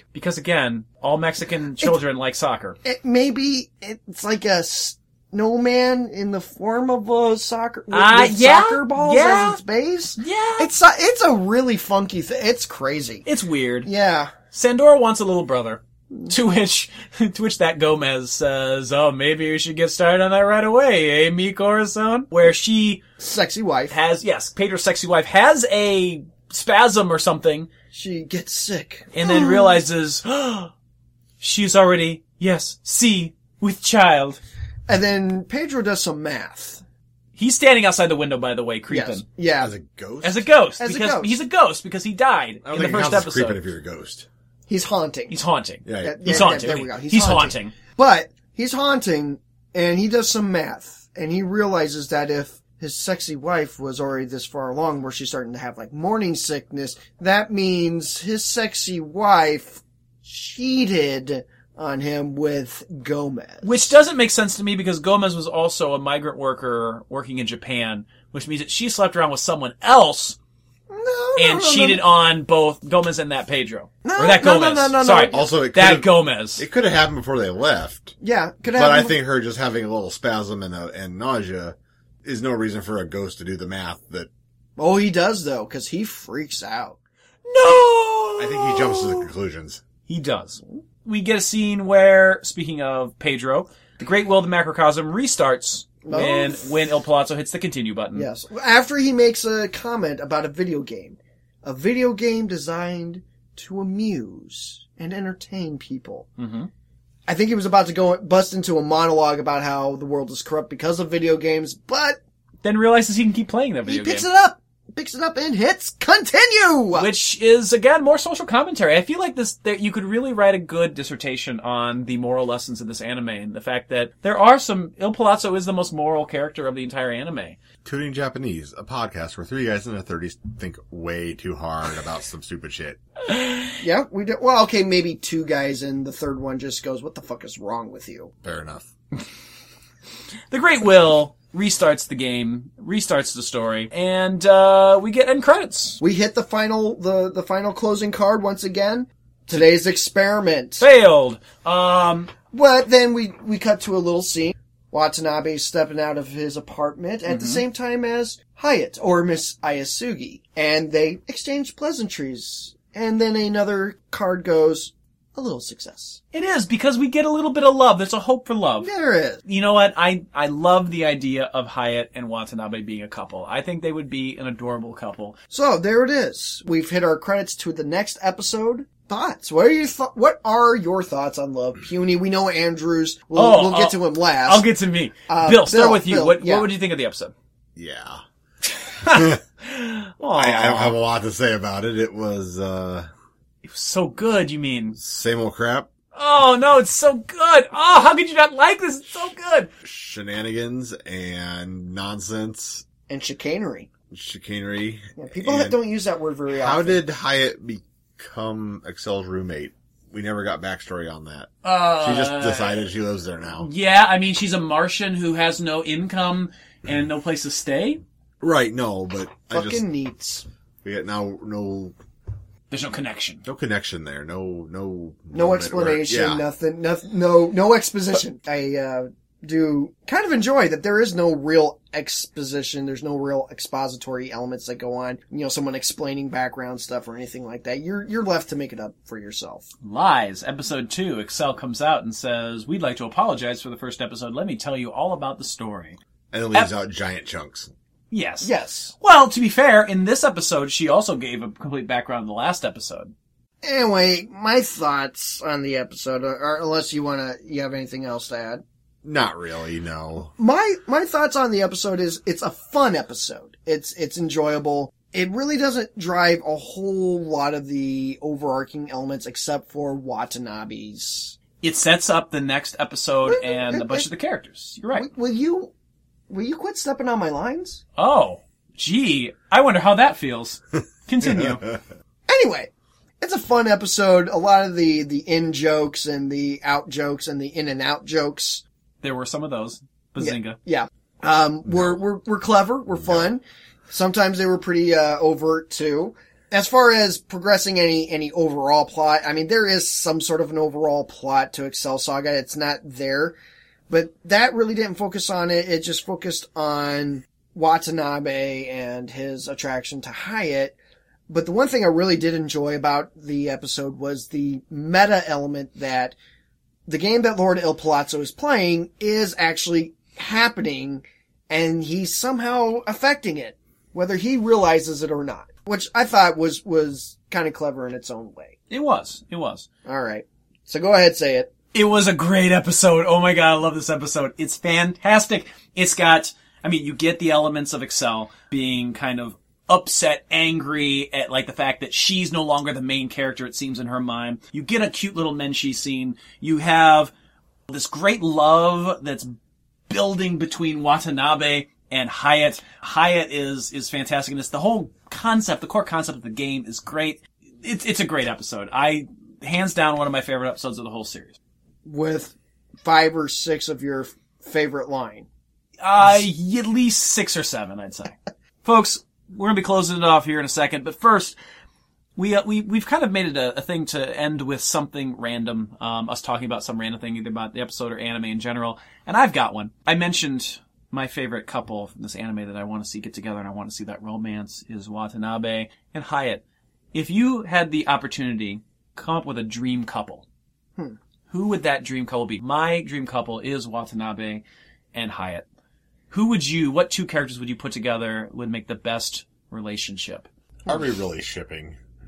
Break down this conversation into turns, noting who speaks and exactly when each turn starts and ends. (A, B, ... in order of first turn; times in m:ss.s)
0:00.1-0:02.8 A
0:02.8-0:13.3 B
0:07.9-0:09.6 A
0:10.2-0:10.7 A
0:13.3-0:13.9 A
0:13.8-0:14.3 B
0:14.5-0:23.1 A
0:23.2-0:24.0 B
0:23.9-0:27.7 A
0:27.9-0:29.8 B
0:29.1-0:30.7 A
0:31.4-0:34.4 A
0:34.9-0:36.8 B
0:37.4-0:39.2 A
0:38.9-0:39.7 B
0:39.6-0:40.5 C
0:40.2-0:43.6 A
0:40.8-0:41.4 B
0:42.6-0:44.3 C
0:44.7-0:45.4 B
0:45.3-0:47.7 A
0:45.8-0:46.8 C
0:46.0-1:04.0 B
1:03.6-1:10.4 A
1:10.9-1:12.0 B
1:11.4-1:16.6 A
1:14.0-1:15.4 B
1:15.3-1:18.2 C
1:18.2-1:19.2 B
1:18.7-1:24.3 C
1:24.8-1:27.0 B
1:27.5-1:29.3 A
1:28.4-1:29.8 C
1:30.1-1:38.3 A
1:36.0-1:36.7 B
1:38.1-1:46.3 B
1:46.4-1:46.7 A
1:47.3-1:52.2 B
1:52.6-1:54.3 A
1:53.9-1:57.1 B
1:56.9-2:07.6 A
2:07.8-2:13.0 C
2:13.3-2:13.7 A
2:13.8-2:18.3 B
2:18.4-2:18.9 C
2:20.5-2:26.0 A
2:26.0-2:30.9 B
2:30.8-2:32.3 A
2:32.5-2:46.2 B
2:37.3-2:37.6 A
2:46.3-2:48.9 A
2:48.8-2:49.4 B
2:49.4-2:55.4 A
2:55.5-3:04.7 B
3:03.3-3:07.3 A
3:05.3-3:06.7 B
3:07.8-3:08.2 C
3:08.9-3:11.0 A
3:09.1-3:09.4 C
3:10.4-3:13.1 C
3:13.6-3:15.0 A
3:15.0-3:15.9 C
3:16.1-3:19.7 A
3:19.8-3:22.8 C
3:23.1-3:23.9 B
3:24.1-3:25.8 C
3:25.2-3:27.0 B
3:26.5-3:33.7 C
3:31.6-3:32.9 A
3:33.5-3:38.0 A
3:38.4-3:39.8 C
3:39.5-3:40.4 B
3:40.8-3:42.0 C
3:42.7-3:43.4 A
3:43.4-3:46.4 C
3:45.3-3:59.7 B
3:59.8-4:06.0 A
4:06.3-4:07.7 C
4:08.1-4:13.1 A
4:08.4-4:08.9 B
4:13.6-4:18.6 B
4:19.0-4:20.3 C
4:20.4-4:31.4 B
4:31.6-4:35.1 A
4:33.3-4:34.1 B
4:34.9-4:35.7 B
4:36.3-4:37.8 B
4:38.0-4:41.8 A
4:42.3-4:42.7 B
4:43.2-4:48.6 B
4:49.0-4:50.6 A
4:50.2-5:03.4 B
4:51.7-4:52.0 C
4:53.0-4:53.3 C
5:03.9-5:10.8 B
5:11.3-5:16.2 B
5:16.9-5:28.5 B
5:28.7-5:29.7 A
5:29.9-5:31.5 B
5:31.7-5:47.1 A
5:47.7-5:49.3 A
5:49.9-6:01.4 A
6:01.8-6:05.3 B
6:05.8-6:11.4 A
6:12.2-6:26.4 A
6:26.9-6:30.2 A
6:31.3-6:34.4 A
6:34.9-6:35.5 A
6:36.1-6:40.3 A
6:40.7-6:41.8 C